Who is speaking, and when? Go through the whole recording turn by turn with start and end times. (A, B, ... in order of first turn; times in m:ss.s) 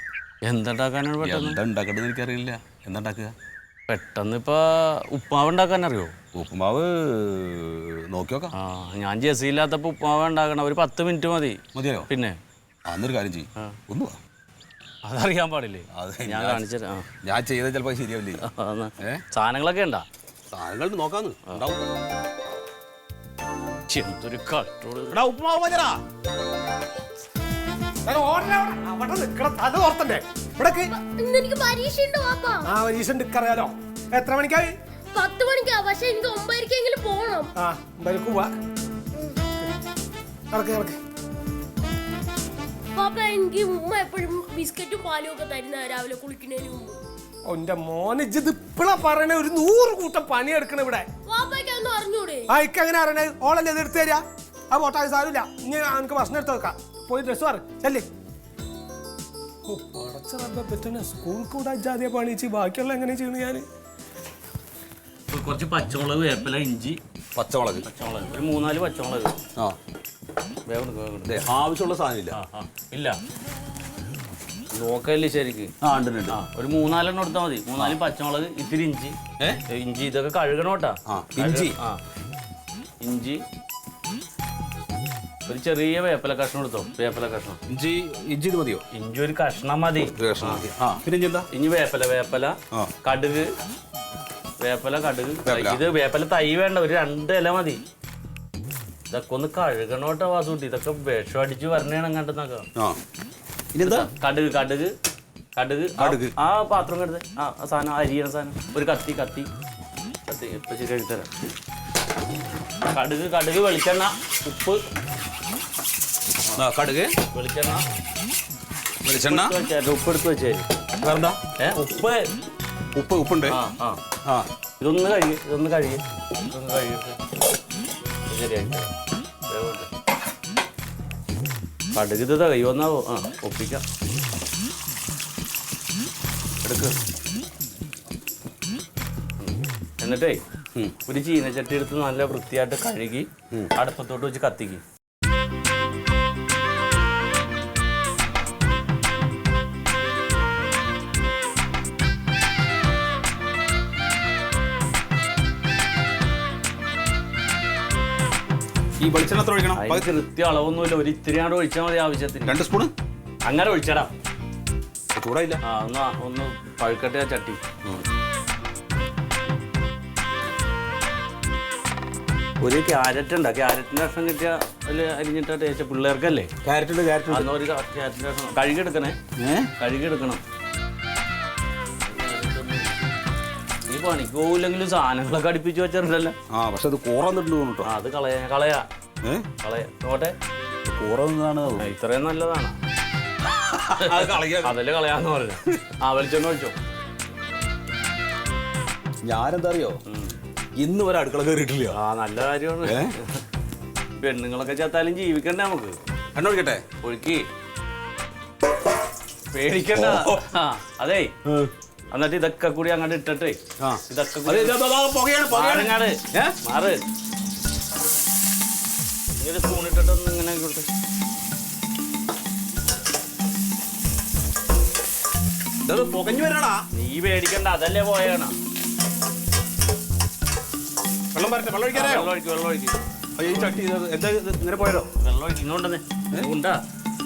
0:00.4-0:01.6 A
0:01.2-0:03.3 B
0:03.9-0:06.1 A
0:06.3-0:08.5 B
0:08.6-0:12.4 A
0:11.7-0:12.1 B
0:12.9-0:14.2 B
0:15.0-0:17.0 A
0:15.9-0:16.6 B
0:17.2-0:18.4 B
0:18.4-0:20.0 A
0:20.5-0:21.8 B
0:23.9-0:25.1 A
0:25.1-0:26.0 B
0:28.0-0:30.9 C
0:30.8-0:32.6 D
0:32.6-0:34.7 C
0:35.1-0:37.5 D
0:37.6-0:38.5 C
0:40.5-0:41.0 C
0:42.9-0:47.0 D
0:47.5-0:51.1 C
0:51.3-0:52.5 D
0:52.5-0:58.0 C
0:59.7-1:03.6 C
1:05.3-1:07.0 A
1:07.3-1:07.8 B
1:07.8-1:09.4 A
1:10.7-1:11.3 A
1:11.2-1:12.4 B
1:12.3-1:13.2 A
1:14.7-1:15.7 A
1:15.8-1:16.4 B
1:16.3-1:19.2 A
1:19.7-1:22.0 A
1:21.1-1:21.8 B
1:23.0-1:23.4 A
1:25.5-1:27.6 A
1:27.7-1:28.8 B
1:28.9-1:30.6 A
1:30.1-1:31.4 B
1:31.5-1:33.5 A
1:34.6-1:37.8 A
1:35.4-1:35.8 B
1:39.1-1:42.7 A
1:43.7-1:44.1 B
1:43.8-1:44.9 A
1:45.6-1:49.5 A
1:46.0-1:46.3 B
1:50.3-1:51.3 A
1:52.9-1:54.8 A
1:56.5-1:57.1 B
1:57.3-1:57.8 A
1:59.0-1:59.5 B
1:59.2-2:00.7 A
2:01.0-2:01.4 B
2:01.6-2:02.2 A
2:02.9-2:03.6 B
2:03.5-2:04.0 A
2:04.8-2:07.2 A
2:08.3-2:08.9 A
2:09.5-2:09.9 A
2:11.9-2:13.8 A
2:16.6-2:16.9 B
2:19.4-2:20.4 A
2:21.1-2:24.8 A
2:39.0-2:40.1 B
2:39.8-2:42.6 A
2:42.4-2:42.9 B
2:43.4-2:44.1 A
2:45.1-2:45.6 B
2:45.6-2:47.6 A
2:52.6-2:56.5 A
2:56.6-2:57.5 B
2:57.3-2:59.2 A
2:59.4-2:59.7 B
2:59.8-3:00.4 A
3:02.0-3:02.9 A
3:03.8-3:06.4 A
3:06.5-3:07.9 B
3:07.8-3:08.8 A
3:09.6-3:10.3 A
3:10.9-3:11.9 B
3:11.8-3:12.8 A
3:13.5-3:14.8 B
3:14.0-3:16.7 A
3:19.2-3:20.0 B
3:20.1-3:20.4 A
3:20.8-3:22.0 B
3:21.9-3:23.4 A
3:22.8-3:23.1 B
3:24.2-3:26.0 A
3:26.3-3:26.8 B
3:27.0-3:27.4 A
3:29.5-3:31.3 A
3:29.9-3:30.4 B
3:31.4-3:31.7 B
3:32.1-3:34.8 A
3:33.8-3:36.5 B
3:35.5-3:37.0 A
3:39.4-3:40.9 A
3:45.8-3:46.8 B
3:46.9-3:48.5 A
3:51.3-3:52.3 B
3:51.9-3:53.0 A
3:53.4-3:55.1 B
3:55.2-3:56.8 A